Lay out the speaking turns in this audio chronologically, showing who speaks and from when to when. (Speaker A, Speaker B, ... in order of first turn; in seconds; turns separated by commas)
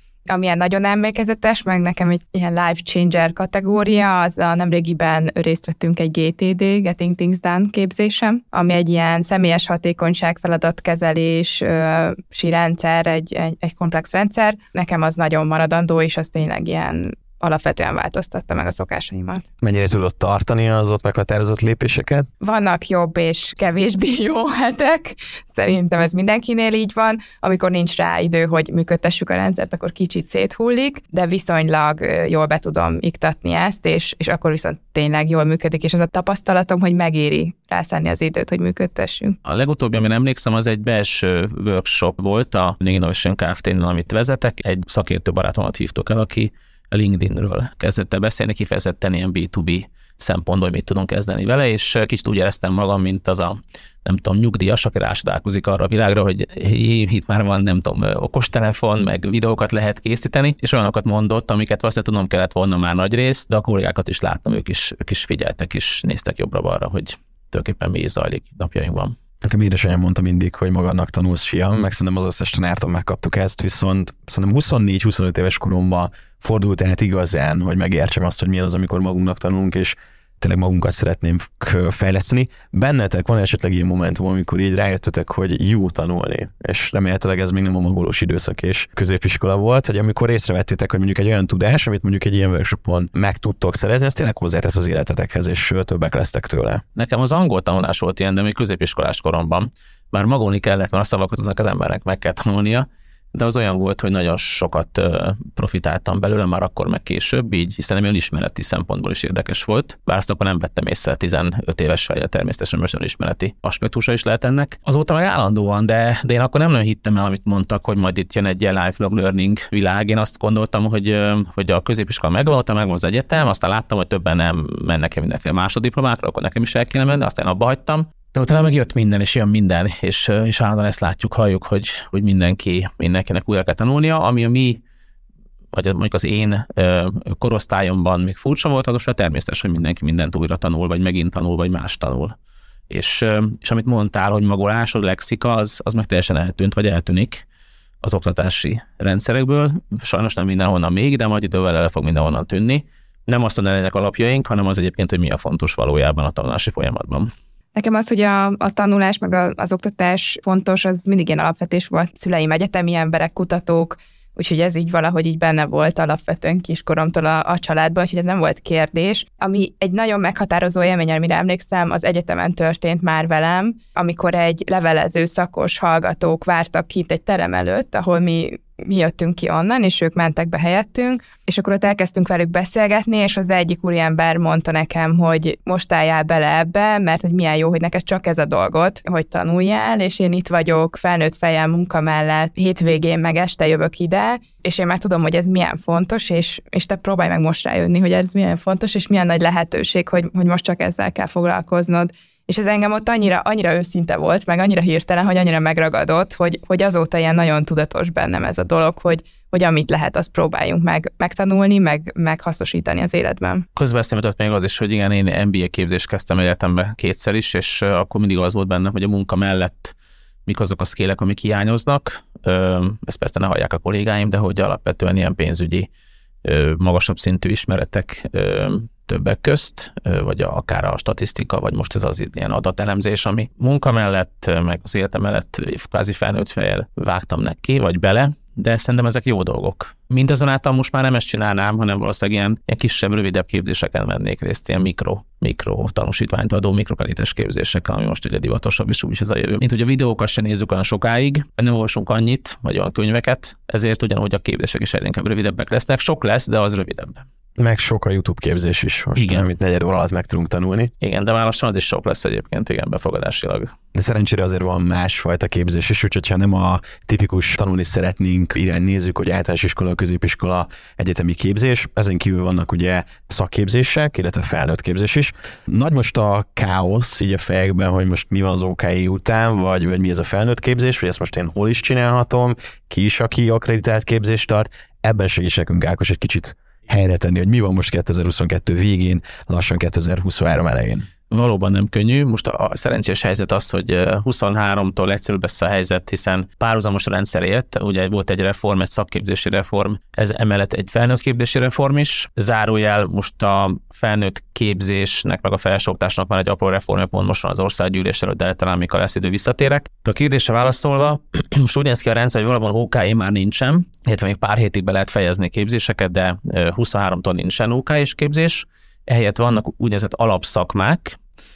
Speaker A: 0.3-19.4, Speaker B: 19.6-22.3, Speaker A: 22.4-39.4, Speaker C: 39.4-69.2, Speaker B: 69.4-96.8, Speaker C: 97.0-134.8, Speaker C: 135.7-142.3, Speaker C: 142.9-147.4, Speaker C: 148.0-157.3, Speaker A: 157.7-213.6, Speaker C: 213.8-219.9, Speaker C: 220.4-225.9, Speaker C: 226.4-257.2, Speaker B: 257.6-260.9, Speaker C: 259.1-259.4, Speaker C: 261.0-263.7, Speaker B: 263.9-291.1, Speaker C: 291.3-321.2